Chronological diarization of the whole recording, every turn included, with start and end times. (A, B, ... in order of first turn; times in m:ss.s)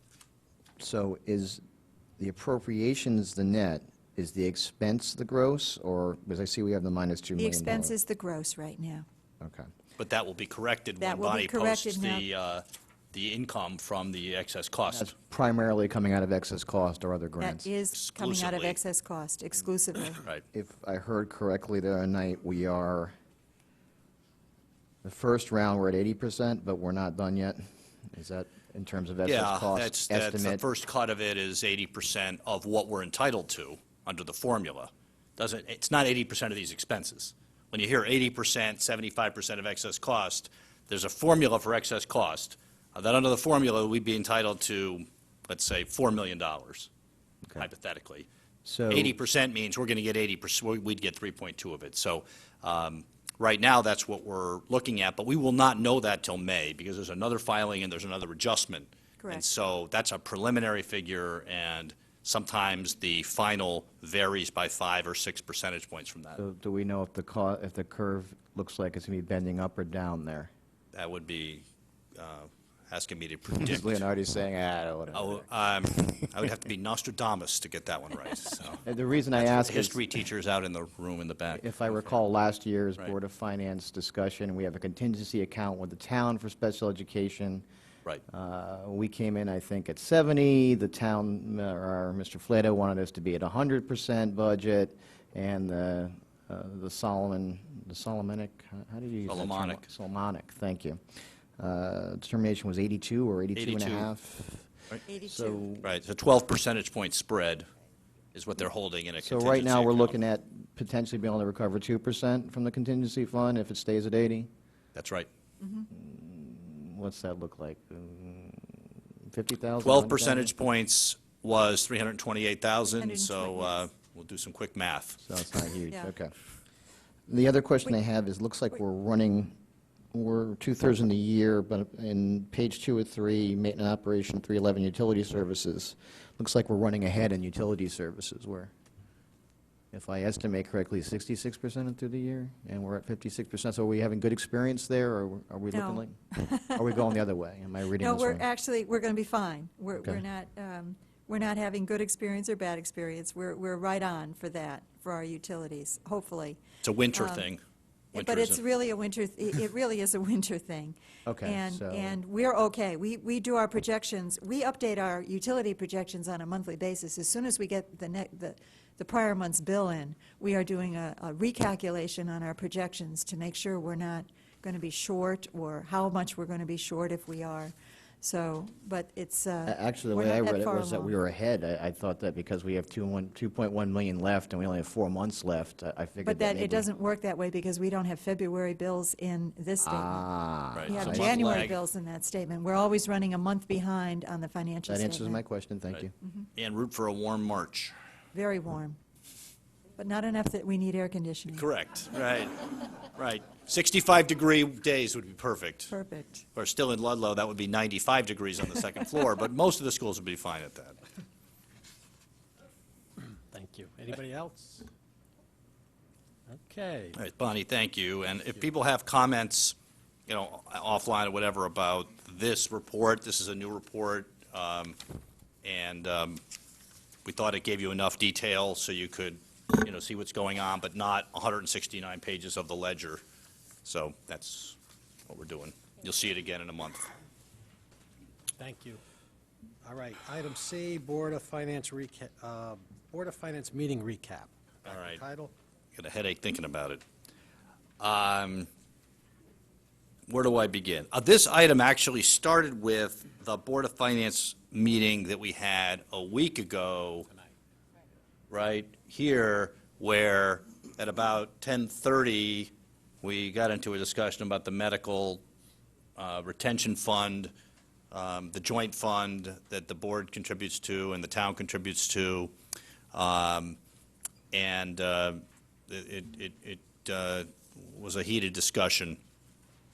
0:00.8-0:01.6 A
0:02.2-0:07.9 A
0:07.4-0:09.0 B
0:09.4-0:09.7 A
0:10.0-0:15.1 C
0:11.0-0:12.3 B
0:14.9-0:17.7 A
0:17.4-0:20.2 B
0:17.9-0:18.8 C
0:20.5-0:23.1 A
0:25.0-0:30.6 A
0:29.2-0:46.9 C
0:47.6-0:48.3 C
0:48.6-0:49.1 A
0:48.9-1:06.4 C
1:06.4-1:10.5 A
1:10.9-1:11.6 C
1:12.2-1:14.0 C
1:13.6-1:15.5 A
1:15.1-1:18.8 C
1:18.8-1:20.0 A
1:19.4-1:21.6 C
1:21.5-1:27.6 A
1:28.3-1:41.0 A
1:39.3-1:39.9 C
1:41.6-1:45.9 A
1:43.5-1:44.1 C
1:45.1-1:45.6 B
1:45.8-1:47.7 C
1:48.3-1:50.2 C
1:49.2-1:54.5 A
1:54.9-1:55.3 C
1:55.6-1:55.9 B
1:55.9-2:00.5 A
1:59.8-2:05.2 C
2:03.0-2:03.8 B
2:05.2-2:06.3 A
2:07.3-2:09.6 A
2:10.1-2:18.7 A
2:19.9-2:28.4 A
2:25.7-2:27.1 B
2:28.0-2:36.6 B
2:36.8-2:37.6 C
2:37.1-2:37.5 B
2:38.1-3:01.2 B
2:38.2-2:38.6 C
2:41.2-2:42.2 A
2:59.6-3:06.9 A
3:06.2-3:10.2 B
3:09.8-3:11.7 A
3:10.7-3:11.8 C
3:10.9-3:15.4 B
3:14.9-3:16.1 A
3:16.6-3:17.9 C
3:18.3-3:19.0 B
3:20.0-3:21.7 B
3:21.5-3:25.9 C
3:25.9-3:26.4 B
3:26.5-3:31.0 C
3:33.5-3:34.9 D
3:36.5-3:37.2 D
3:37.2-3:39.8 C
3:40.3-3:45.0 C
3:45.6-3:46.4 C
3:47.2-3:53.2 C
3:53.8-3:54.8 C
3:55.3-3:57.1 C
3:58.6-3:59.0 D
3:59.8-4:05.5 D
4:04.8-4:05.2 C
4:06.0-4:07.0 C
4:08.0-4:08.7 C
4:10.3-4:17.3 C
4:18.5-4:25.4 C
4:26.2-4:27.5 C
4:28.1-4:32.5 C
4:33.1-4:33.8 C
4:34.5-4:39.2 C